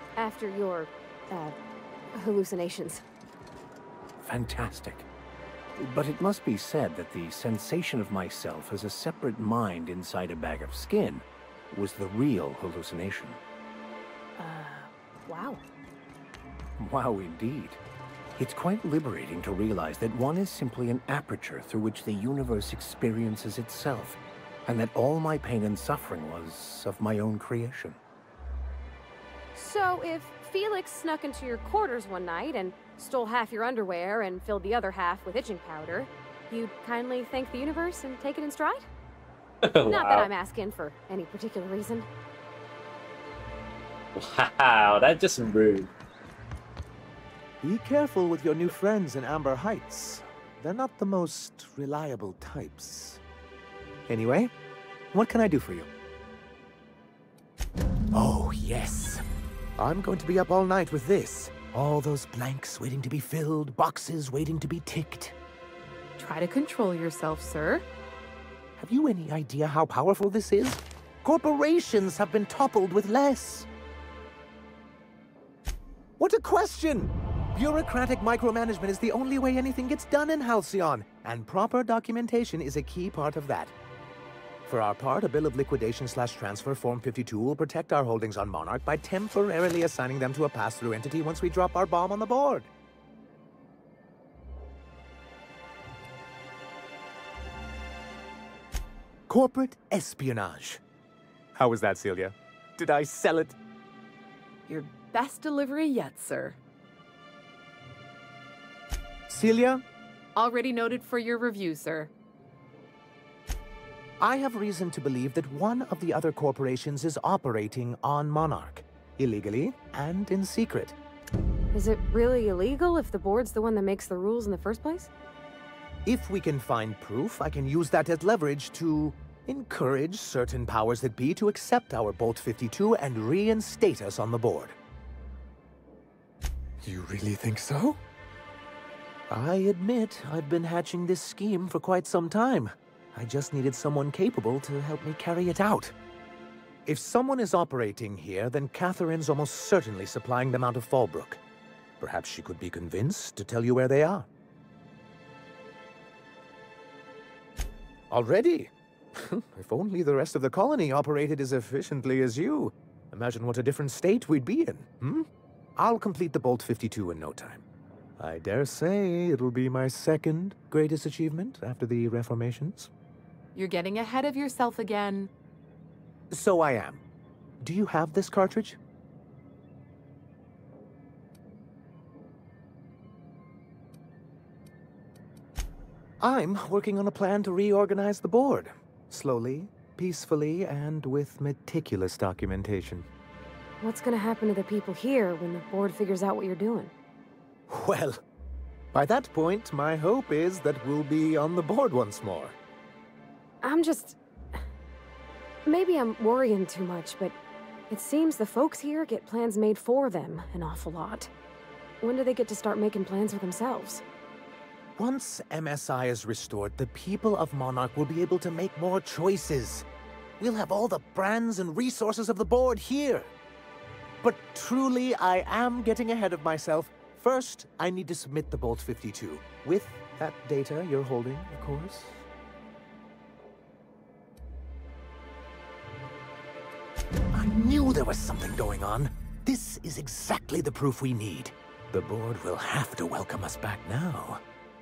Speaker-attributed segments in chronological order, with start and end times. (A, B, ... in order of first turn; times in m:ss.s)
0:00.2-0:01.6 A
0:02.1-0:03.0 A
0:04.2-0:05.1 B
0:05.8-0:13.4 B
0:14.4-0:15.6 A
0:16.8-0:17.8 B
0:18.4-0:28.0 B
0:29.6-0:38.9 A
0:39.6-0:40.3 C
0:39.9-0:42.1 A
0:44.2-0:45.9 C
0:47.6-0:53.2 D
0:54.1-0:54.5 D
0:55.1-0:55.9 D
0:58.1-0:59.2 D
0:59.8-1:05.4 D
1:06.2-1:07.8 E
1:08.8-1:13.7 D
1:16.2-1:23.7 D
1:24.7-1:32.7 D
1:39.3-1:40.8 D
1:41.6-1:43.6 D
1:44.7-1:46.6 E
1:49.3-1:49.8 D
1:50.4-1:52.1 E
1:54.2-2:01.0 D
2:01.7-2:05.1 A
2:06.0-2:14.8 D
2:16.8-2:18.0 D
2:19.3-2:26.0 D
2:26.9-2:31.4 D
2:32.0-2:34.3 D
2:38.1-2:47.6 D
2:48.2-2:52.9 D
2:53.6-2:55.3 E
2:56.3-2:57.0 D
2:57.6-2:58.8 D
3:06.2-3:13.1 D
3:13.8-3:16.9 A
3:17.7-3:18.2 D
3:18.9-3:22.6 D
3:23.6-3:24.2 A
3:25.7-3:27.4 A
3:27.9-3:31.3 A
3:32.0-3:34.0 A
3:35.0-3:39.9 D
3:40.4-3:43.3 D
3:44.2-3:52.2 D
3:57.3-4:04.4 D